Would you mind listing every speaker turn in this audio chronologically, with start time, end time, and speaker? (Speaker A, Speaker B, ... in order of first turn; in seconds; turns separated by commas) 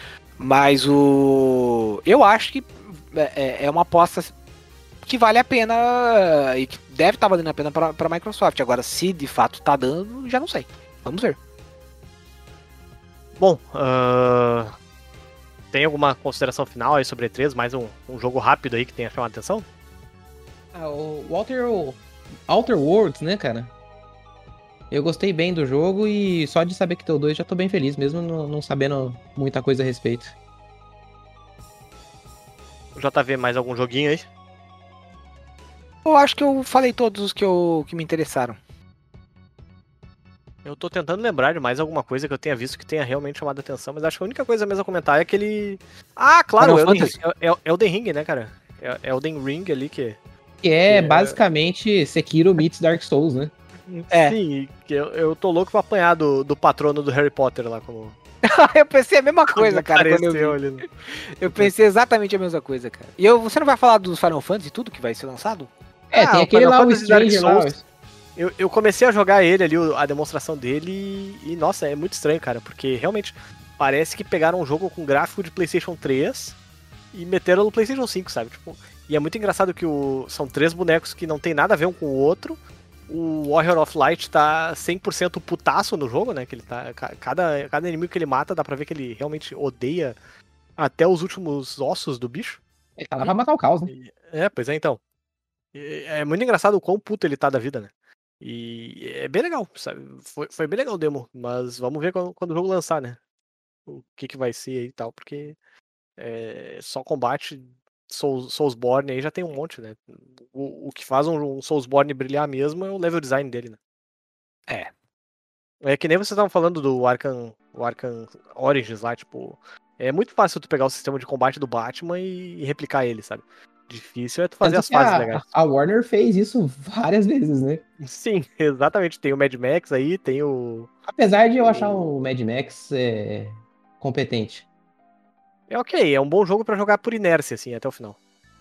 Speaker A: 0.4-4.3, Speaker A: 5.0-11.4, Speaker B: 13.4-14.7, Speaker B: 15.7-19.6, Speaker C: 20.7-23.7, Speaker C: 24.9-30.3, Speaker B: 33.0-34.2, Speaker A: 36.0-38.6, Speaker B: 40.6-50.2, Speaker A: 46.6-47.2, Speaker C: 50.6-53.5, Speaker B: 50.9-51.4, Speaker B: 53.9-58.1, Speaker A: 54.1-54.4, Speaker A: 58.4-65.7, Speaker B: 59.5-60.9, Speaker B: 61.5-61.7, Speaker B: 66.1-67.7, Speaker C: 66.1-67.8, Speaker B: 68.3-76.5, Speaker B: 77.1-90.2, Speaker B: 90.8-92.6, Speaker C: 93.0-93.9, Speaker B: 93.9-95.0, Speaker B: 95.7-103.2, Speaker B: 103.9-105.6, Speaker B: 106.2-113.8, Speaker B: 115.8-125.5, Speaker C: 124.6-127.8, Speaker B: 128.0-130.9, Speaker C: 131.1-134.6, Speaker B: 131.6-132.1, Speaker B: 135.7-138.2